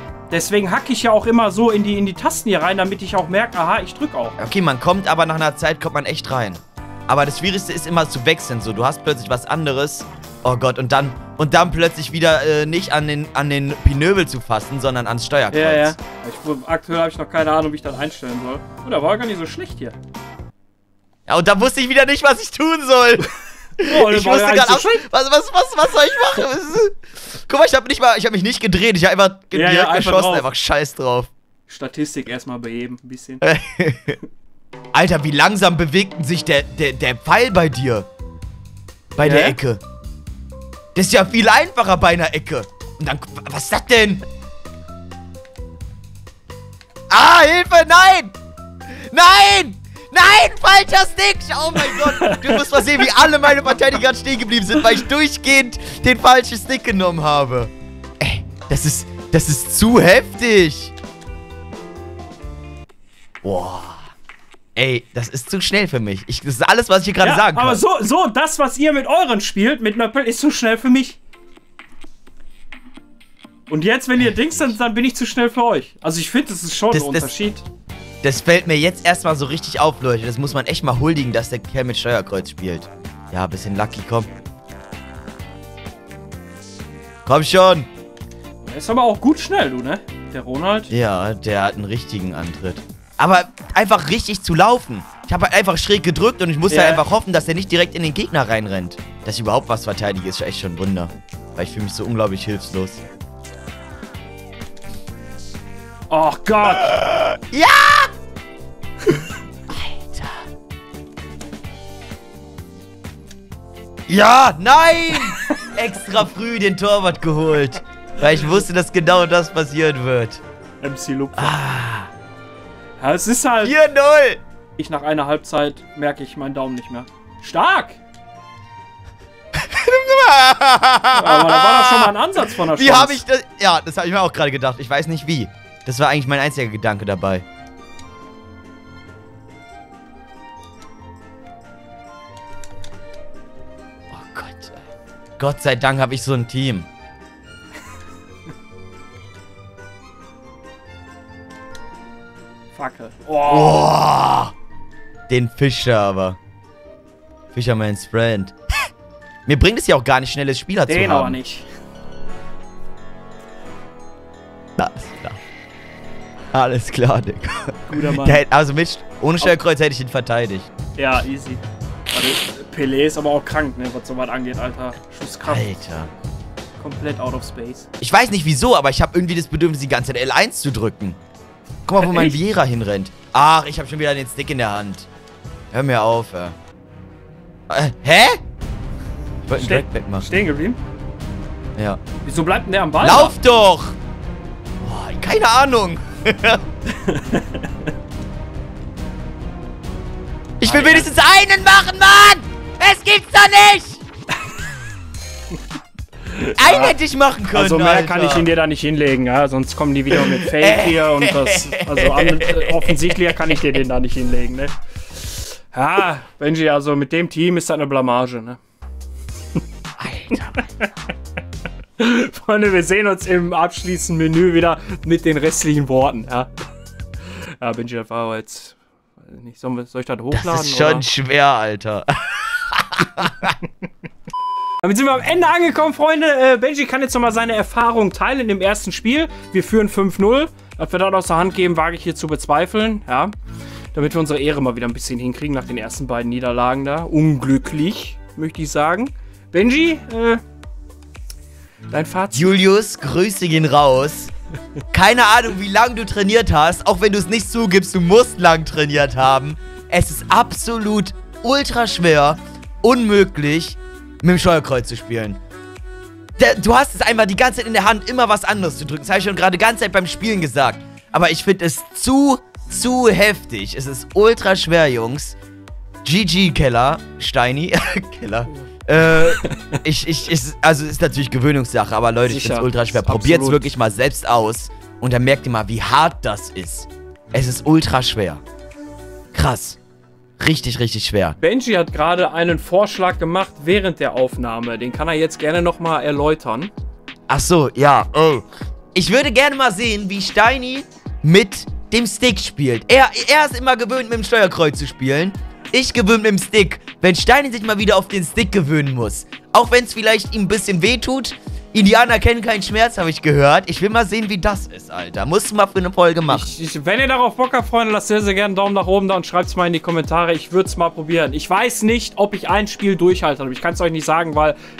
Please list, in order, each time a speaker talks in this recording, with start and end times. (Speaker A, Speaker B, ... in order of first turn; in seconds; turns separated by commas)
Speaker A: 0.3-4.3, Speaker B: 4.4-16.0, Speaker A: 15.5-19.9, Speaker B: 21.3-31.3, Speaker A: 23.8-25.1, Speaker A: 29.5-30.5, Speaker A: 31.7-33.4, Speaker B: 33.4-34.2, Speaker B: 34.9-38.1, Speaker B: 39.1-39.8, Speaker A: 39.2-39.6, Speaker B: 40.9-44.2, Speaker B: 47.1-48.3, Speaker B: 48.9-60.9, Speaker A: 51.8-53.1, Speaker B: 63.4-64.0, Speaker B: 64.8-67.8, Speaker A: 67.2-71.2, Speaker A: 73.7-77.7, Speaker B: 76.9-77.3, Speaker B: 78.2-84.3, Speaker B: 87.2-87.9, Speaker A: 88.6-90.9, Speaker B: 90.9-103.0, Speaker A: 96.7-97.0, Speaker A: 106.1-107.0, Speaker B: 106.8-108.1, Speaker B: 109.7-110.4, Speaker B: 114.1-120.4, Speaker A: 120.8-121.5, Speaker B: 121.3-122.1, Speaker A: 123.0-123.8, Speaker B: 123.6-124.4, Speaker A: 124.8-128.0, Speaker B: 129.5-137.4, Speaker A: 131.1-133.2, Speaker B: 144.1-144.8, Speaker B: 145.4-146.9, Speaker A: 152.7-153.9, Speaker B: 153.5-154.5, Speaker B: 155.3-156.4, Speaker B: 157.5-158.5, Speaker B: 159.4-161.4, Speaker A: 160.9-161.7, Speaker B: 164.8-165.4, Speaker B: 166.5-170.7, Speaker A: 167.8-168.4, Speaker A: 171.0-175.8, Speaker B: 175.4-176.1, Speaker A: 176.8-177.9, Speaker B: 178.0-181.2, Speaker B: 181.9-185.1, Speaker A: 182.0-182.4, Speaker B: 185.7-186.6, Speaker B: 187.7-188.4, Speaker B: 189.4-190.3, Speaker A: 189.5-190.8, Speaker A: 192.2-193.3, Speaker B: 193.0-194.0, Speaker B: 194.8-196.6, Speaker A: 196.9-197.7, Speaker B: 200.6-204.0, Speaker A: 200.6-201.1, Speaker A: 206.3-206.9, Speaker B: 206.6-208.5, Speaker A: 207.5-218.6, Speaker B: 210.1-213.2, Speaker B: 220.0-220.7, Speaker A: 220.3-220.8, Speaker A: 222.0-226.5, Speaker A: 227.6-231.1, Speaker B: 230.3-233.5, Speaker A: 234.8-243.3, Speaker A: 243.9-250.4, Speaker A: 251.9-252.6, Speaker B: 252.3-254.3, Speaker B: 254.9-265.4, Speaker B: 266.4-275.4, Speaker B: 276.0-288.4, Speaker A: 279.4-279.8, Speaker A: 282.2-283.6, Speaker B: 289.3-289.8, Speaker B: 290.4-291.4, Speaker A: 291.4-296.7, Speaker B: 297.3-316.5, Speaker A: 316.3-324.6